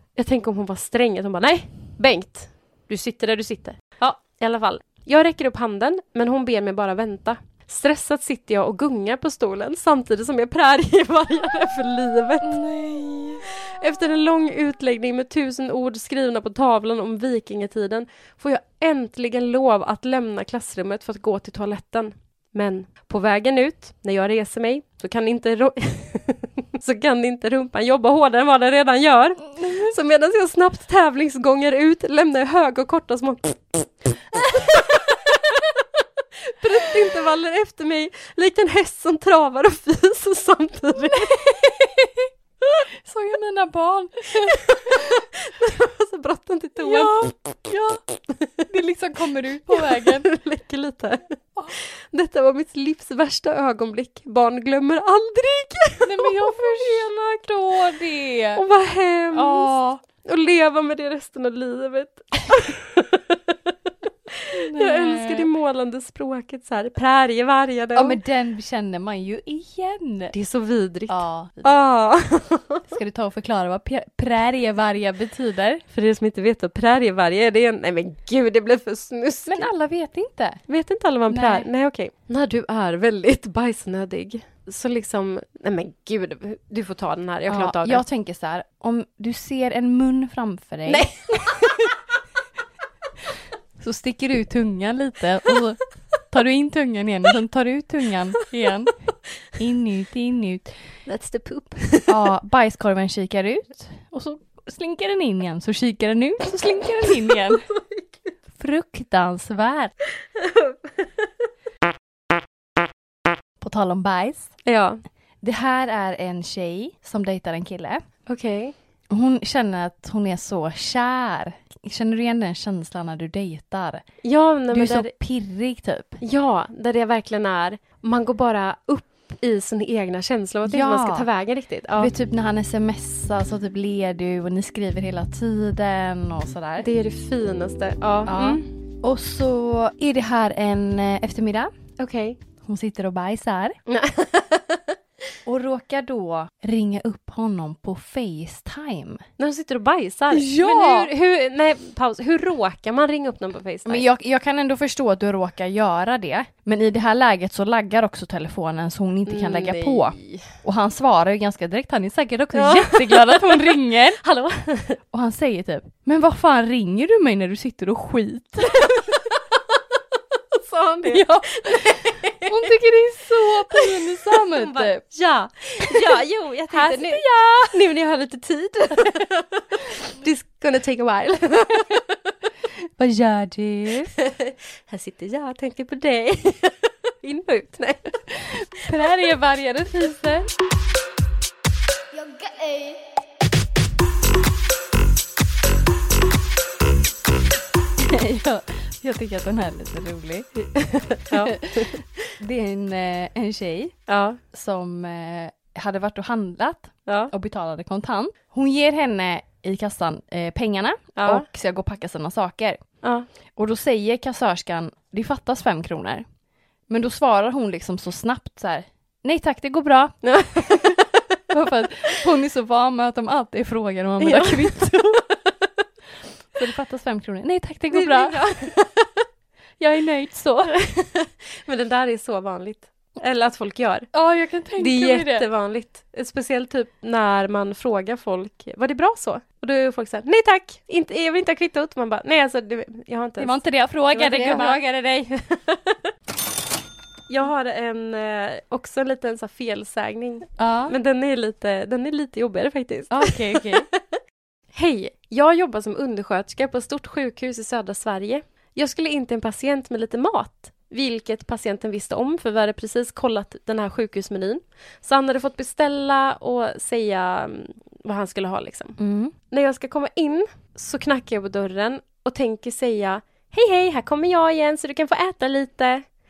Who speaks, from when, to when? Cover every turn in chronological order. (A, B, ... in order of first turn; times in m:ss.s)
0:00.2-0:12.6 A
0:12.4-0:13.5 B
0:13.5-0:35.8 A
0:29.6-0:29.9 B
0:34.5-0:34.9 B
0:36.4-0:41.5 A
0:41.1-0:42.3 B
0:43.0-0:45.2 B
0:44.4-0:47.3 A
0:46.8-0:48.0 B
0:48.7-0:50.3 B
0:49.7-0:57.1 A
0:56.0-0:58.6 B
0:58.5-1:03.5 A
0:59.3-1:00.0 B
1:04.3-1:08.2 A
1:04.5-1:05.5 B
1:07.9-1:10.3 B
1:10.3-1:12.8 A
1:11.1-1:11.8 B
1:12.9-1:15.8 B
1:15.9-1:19.7 A
1:19.4-1:20.6 B
1:20.7-1:28.0 A
1:21.3-1:21.7 B
1:27.5-1:31.1 B
1:30.9-1:31.9 A
1:33.8-1:35.8 B
1:36.3-1:39.0 B
1:39.5-1:40.7 B
1:41.0-1:42.2 A
1:42.1-1:47.6 B
1:47.3-1:48.3 A
1:48.6-1:49.9 B
1:50.4-1:51.3 A
1:53.6-1:54.5 B
1:54.6-1:55.0 A
1:55.4-1:58.0 B
1:58.3-1:58.8 A
1:59.1-2:04.0 B
2:04.2-2:05.1 A
2:04.7-2:06.2 B
2:06.2-2:12.1 A
2:10.6-2:11.3 B
2:12.0-2:16.9 B
2:16.8-2:18.7 A
2:18.2-2:21.7 B
2:22.0-2:22.4 A
2:22.6-2:23.8 B
2:23.9-2:24.9 A
2:25.4-2:29.2 B
2:29.4-2:34.0 A
2:30.3-2:31.1 B
2:33.8-2:44.2 B
2:39.3-2:40.4 A
2:42.5-2:45.0 A
2:45.1-2:49.0 B
2:48.7-2:49.2 A
2:50.5-2:52.7 A
2:51.0-2:55.0 B
2:53.7-3:02.0 A
2:56.7-2:57.7 B
3:03.0-3:04.1 B
3:04.2-3:08.2 A
3:08.3-3:10.5 B
3:18.0-3:20.7 B
3:21.1-3:22.0 A
3:21.3-3:23.9 B
3:24.1-3:24.4 A
3:24.5-3:32.8 B
3:31.2-3:31.4 A
3:33.6-3:36.2 B
3:36.9-3:40.1 B
3:40.2-3:41.1 A
3:41.5-3:45.2 B
3:44.2-3:45.4 A
3:46.5-3:48.4 B
3:47.9-3:49.0 A
3:49.8-3:50.7 B
3:50.8-3:54.1 A
3:54.1-3:55.5 B
3:54.8-4:03.6 A
4:03.4-4:04.8 B
4:04.1-4:06.0 A
4:07.3-4:14.0 A
4:10.6-4:10.9 B
4:13.1-4:13.9 B
4:14.7-4:29.0 A
4:29.0-4:29.3 B
4:29.5-4:36.0 A